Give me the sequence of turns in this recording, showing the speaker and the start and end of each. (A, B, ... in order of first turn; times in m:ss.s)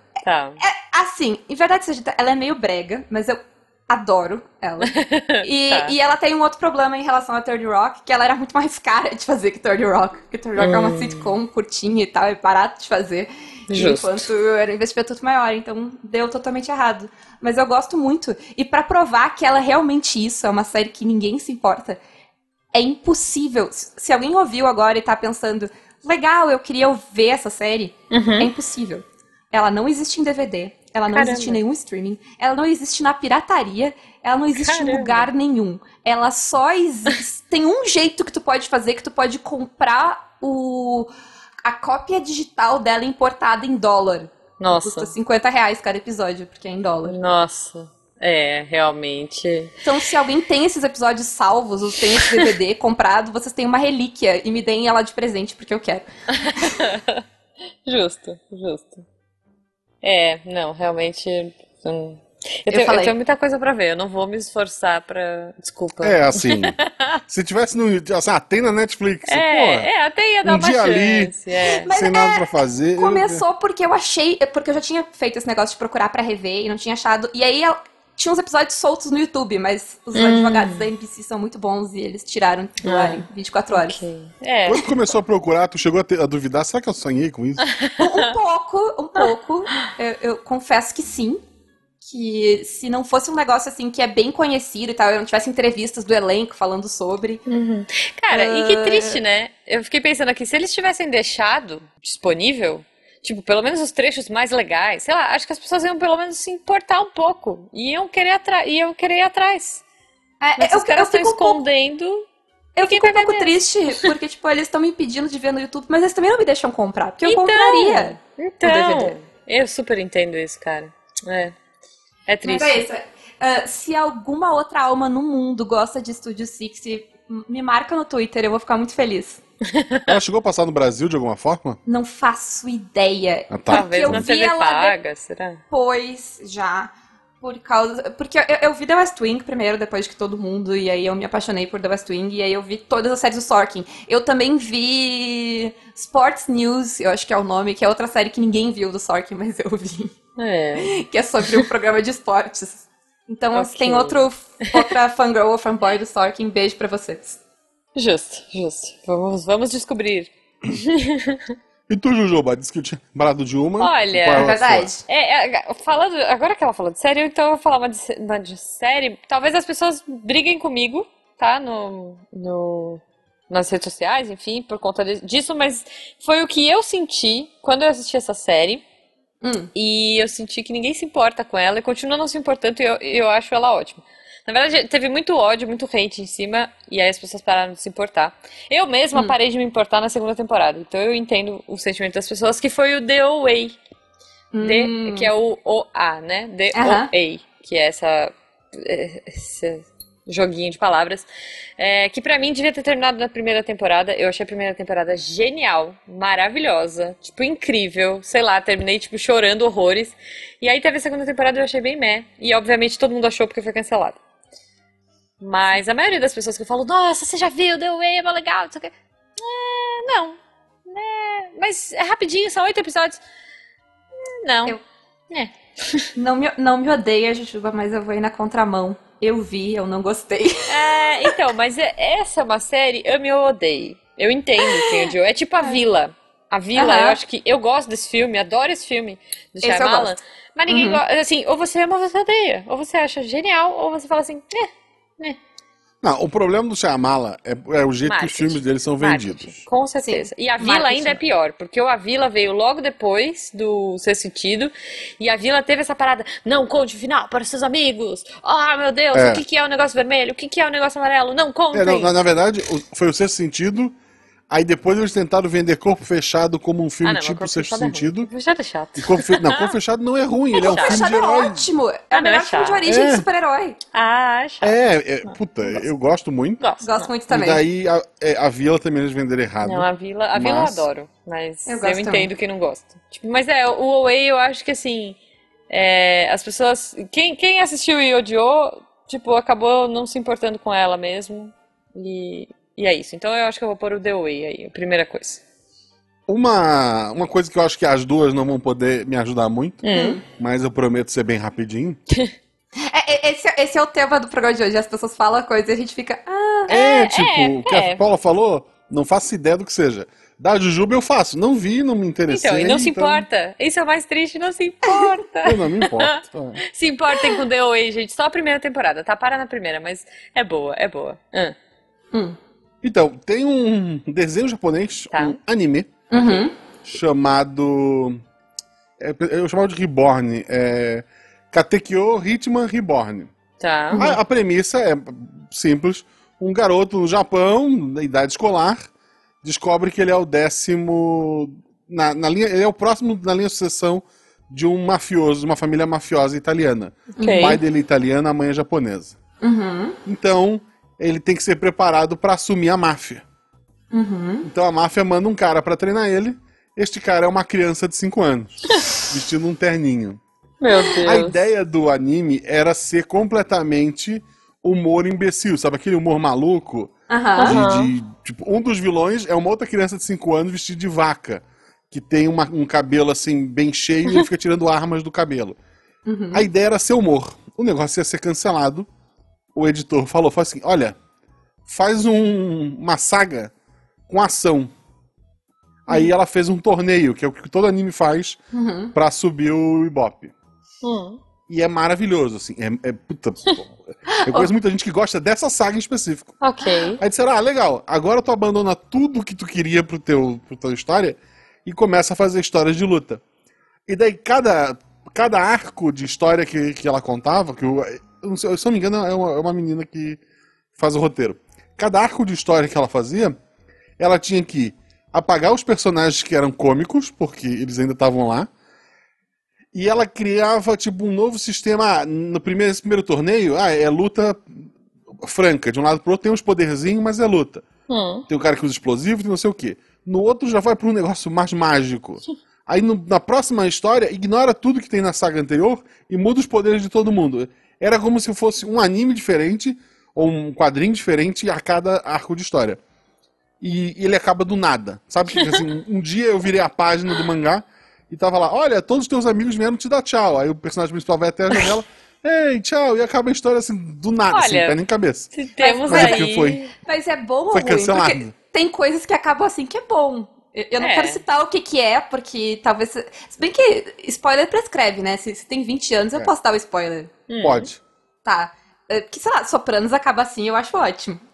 0:00.2-0:00.6 A
0:00.6-0:22.0 B
0:04.8-0:05.9 A
0:10.6-0:11.3 A
0:13.7-0:14.3 A
0:22.7-0:41.1 B
0:28.1-0:28.5 A
0:31.1-0:31.6 A
0:34.5-0:35.3 A
0:41.6-0:47.2 B
0:44.6-0:45.1 A
0:47.0-0:49.7 A
0:49.8-0:56.0 B
0:56.3-0:57.2 A
0:57.8-0:59.0 A
1:00.0-1:07.2 A
1:02.7-1:03.2 B
1:06.0-1:06.8 C
1:07.3-1:09.9 C
1:09.3-1:11.9 A
1:10.4-1:11.3 C
1:11.8-1:24.0 B
1:11.9-1:13.4 C
1:20.1-1:20.8 A
1:22.8-1:24.9 A
1:24.6-1:27.6 C
1:27.6-1:28.2 A
1:28.0-1:31.4 B
1:32.0-1:37.4 B
1:37.5-1:49.8 A
1:38.3-1:39.2 B
1:50.4-1:51.6 B
1:50.6-1:52.2 A
1:52.8-1:59.2 B
1:52.8-1:54.1 A
1:57.2-2:01.5 A
2:02.3-2:02.8 A
2:02.4-2:09.4 B
2:09.7-2:10.1 A
2:10.1-2:11.8 C
2:11.8-2:15.0 B
2:13.5-2:14.2 C
2:13.7-2:15.6 A
2:15.7-2:30.1 B
2:30.4-2:31.0 A
2:30.8-2:37.4 B
2:33.5-2:34.7 A
2:38.0-2:41.6 A
2:41.9-2:44.9 C
2:43.8-2:58.8 A
2:44.3-2:45.0 B
2:59.4-2:59.7 B
2:59.7-3:13.8 A
3:14.5-3:15.3 B
3:14.6-3:34.2 A
3:16.7-3:17.1 B
3:35.4-3:43.2 A
3:44.2-3:44.8 A
3:45.3-3:46.1 A
3:46.2-3:51.3 B
3:50.7-4:05.4 A
3:54.6-3:55.1 B
3:56.7-3:57.2 B
3:59.6-4:00.2 B
4:00.7-4:01.0 B
4:06.0-4:09.6 C
4:08.0-4:22.1 A
4:10.0-4:11.2 B
4:19.1-4:19.4 C
4:21.7-4:23.9 C
4:24.5-4:28.3 C
4:27.0-4:29.7 A
4:29.0-4:31.6 C
4:30.5-4:33.8 B
4:30.6-4:31.0 A
4:32.1-4:32.8 A
4:32.8-4:33.2 C
4:33.9-4:35.4 A
4:34.6-4:36.6 C
4:36.6-4:37.1 A
4:36.8-4:37.6 B
4:37.3-4:40.9 C
4:39.6-4:45.2 A
4:41.7-4:42.3 B
4:45.7-4:55.4 A
4:56.3-4:59.8 C
4:59.8-5:00.2 A
4:59.9-5:00.2 B
5:00.3-5:02.0 C
5:02.8-5:06.8 B
5:06.7-5:13.2 C
5:06.7-5:08.0 A
5:12.3-5:21.5 A
5:15.4-5:16.6 C
5:22.8-5:25.9 C
5:25.1-5:25.4 A
5:26.1-5:26.5 B
5:26.8-5:28.2 C
5:29.0-5:33.3 C
5:33.6-5:34.1 A
5:33.9-5:34.2 B
5:34.0-5:38.9 C
5:39.4-5:49.2 C
5:47.2-5:47.6 B
5:47.2-5:47.6 A
5:49.4-5:49.9 B
5:50.0-5:53.2 C
5:53.9-5:54.4 B
5:54.4-6:00.2 C
6:00.6-6:01.4 A
6:01.0-6:15.6 C
6:07.1-6:07.6 B
6:07.4-6:07.9 A
6:16.0-6:16.5 B
6:16.3-6:18.9 C
6:19.5-6:21.0 C
6:21.7-6:23.5 C
6:24.1-6:24.7 C
6:25.9-6:28.4 C
6:28.5-6:28.9 B
6:28.9-6:30.3 C
6:30.8-6:31.2 A
6:31.5-6:36.3 C
6:34.1-6:34.5 B
6:36.4-6:37.0 A
6:37.0-6:43.2 C
6:43.9-6:50.2 C
6:50.8-6:53.4 C
6:54.0-6:58.5 C
6:59.7-7:04.6 C
7:05.2-7:07.6 C
7:07.9-7:08.2 A
7:08.3-7:22.8 C
7:23.6-7:35.3 C
7:34.3-7:34.8 A
7:35.3-7:36.7 A
7:35.6-7:47.1 B
7:35.9-7:36.6 C
7:37.5-7:38.3 C
7:40.8-7:41.2 A
7:47.3-7:47.7 A
7:47.4-7:47.8 C
7:48.2-7:51.2 B